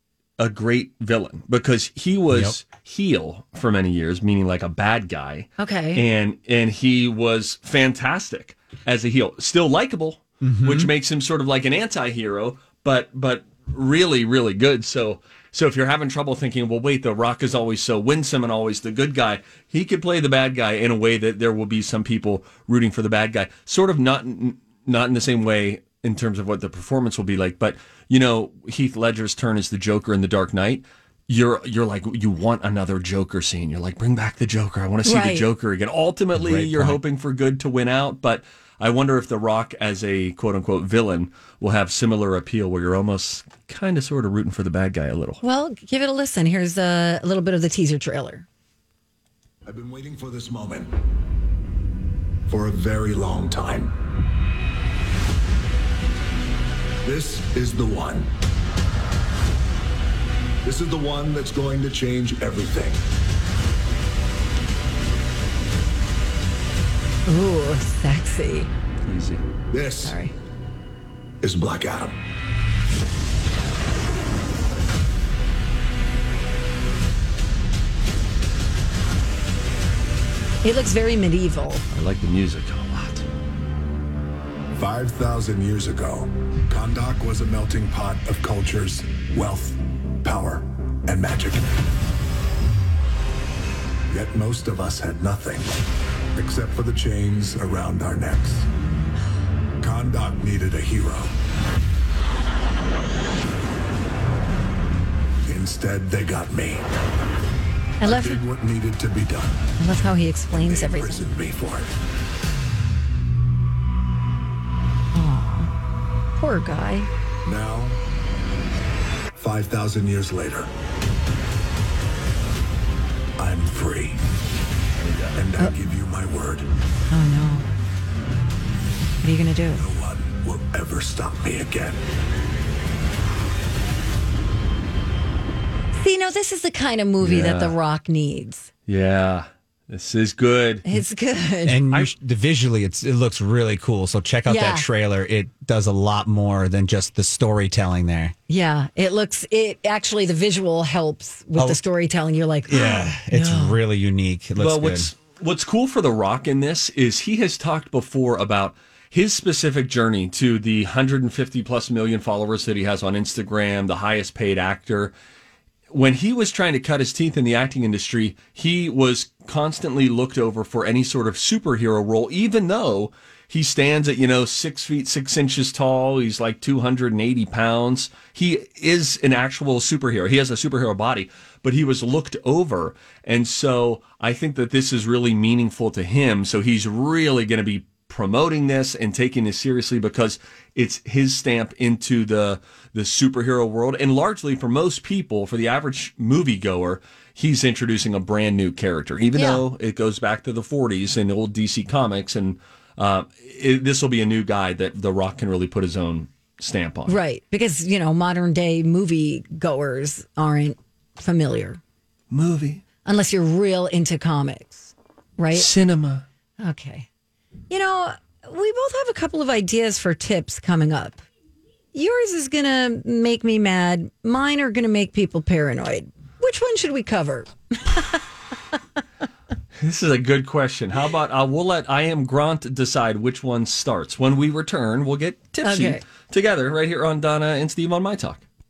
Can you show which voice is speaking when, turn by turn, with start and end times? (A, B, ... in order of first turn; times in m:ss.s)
0:00.4-0:45.4 A
0:02.3-0:02.5 B
0:05.6-0:06.0 C
0:10.4-0:10.9 B
0:35.0-0:35.4 C
0:36.3-0:37.0 B
0:45.4-0:48.4 C
0:49.6-0:50.9 D
0:52.5-0:53.9 D
0:57.0-0:58.3 D
1:00.6-1:03.0 D
1:07.2-1:08.7 C
1:09.0-1:09.4 A
1:09.7-1:10.2 D
1:10.0-1:10.3 C
1:11.4-1:12.1 D
1:20.6-1:21.8 C
1:21.9-1:23.2 A
1:24.7-1:31.7 D
1:34.1-1:35.7 D
1:36.3-1:38.7 D
1:39.8-1:41.3 D
1:45.4-1:46.8 D
1:48.0-1:48.4 C
1:48.0-1:49.6 D
1:49.8-1:51.3 C
1:50.5-1:51.9 D
1:55.1-1:55.7 C
1:56.4-1:57.1 C
1:57.4-1:58.0 D
1:59.4-2:00.7 D
2:03.4-2:04.2 D
2:05.0-2:05.4 A
2:05.3-2:06.6 D
2:07.1-2:07.7 C
2:09.2-2:09.8 C
2:09.7-2:12.0 D
2:15.9-2:18.7 C
2:17.2-2:17.7 A
2:18.9-2:20.8 A
2:20.8-2:21.8 C
2:21.6-2:28.3 B
2:24.5-2:24.9 C
2:28.5-2:33.8 C
2:32.7-2:35.1 B
2:34.6-2:45.1 A
2:45.9-3:27.2 A
3:19.3-3:19.6 C
3:27.1-3:31.8 C
3:32.3-3:32.8 A
3:33.0-3:35.7 C
3:35.5-3:36.2 A
3:36.6-3:37.1 C
3:37.7-3:41.2 C
3:41.9-3:48.2 C
3:49.8-3:58.4 A
3:55.6-3:56.0 C